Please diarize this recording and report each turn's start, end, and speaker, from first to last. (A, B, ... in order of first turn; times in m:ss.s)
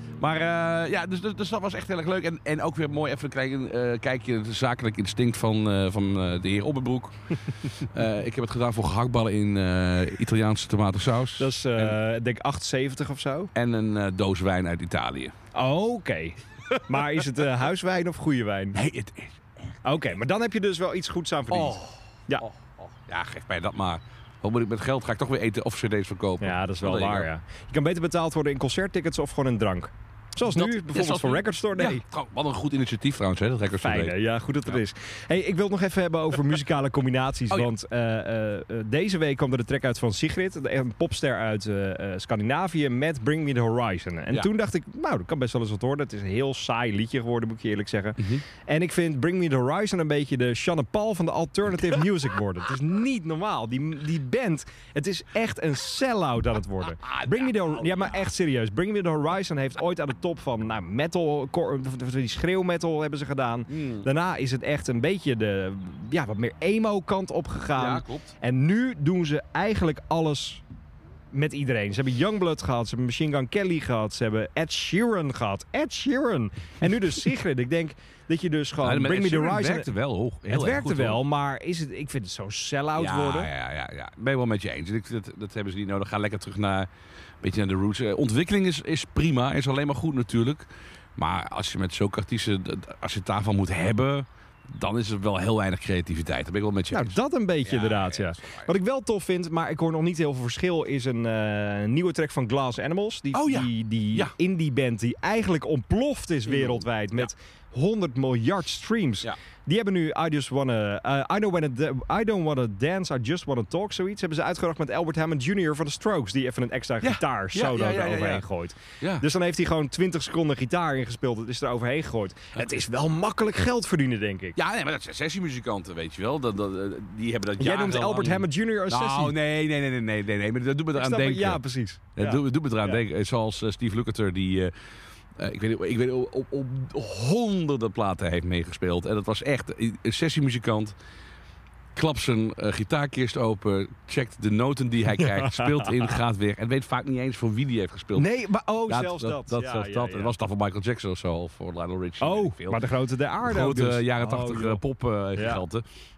0:00.2-0:12.0 A
0:11.4-0:13.5 B
0:13.5-0:15.3 A
0:15.5-0:18.8 B
0:18.7-0:19.8 A
0:19.8-0:22.4 B
0:21.5-0:27.3 A
0:26.4-0:32.0 B
0:30.5-0:34.2 A
0:33.8-1:10.6 B
0:48.2-0:48.4 A
0:57.0-0:58.2 A
1:03.7-1:04.1 A
1:07.8-1:08.3 A
1:11.3-1:19.9 B
1:18.8-1:21.2 A
1:20.5-1:23.5 B
1:23.0-1:26.9 A
1:27.4-1:30.7 A
1:31.2-1:38.7 A
1:36.9-2:04.6 B
1:43.3-1:44.3 A
1:46.5-1:47.3 A
1:57.0-1:58.4 A
1:59.0-1:59.3 A
2:04.6-2:11.6 A
2:07.6-2:09.4 B
2:11.0-2:13.0 B
2:12.2-2:14.7 A
2:15.4-2:20.9 A
2:22.0-2:28.3 A
2:25.2-2:26.1 B
2:28.2-2:30.4 B
2:28.9-2:32.8 A
2:32.2-2:34.8 B
2:33.4-2:35.8 A
2:35.4-2:35.6 B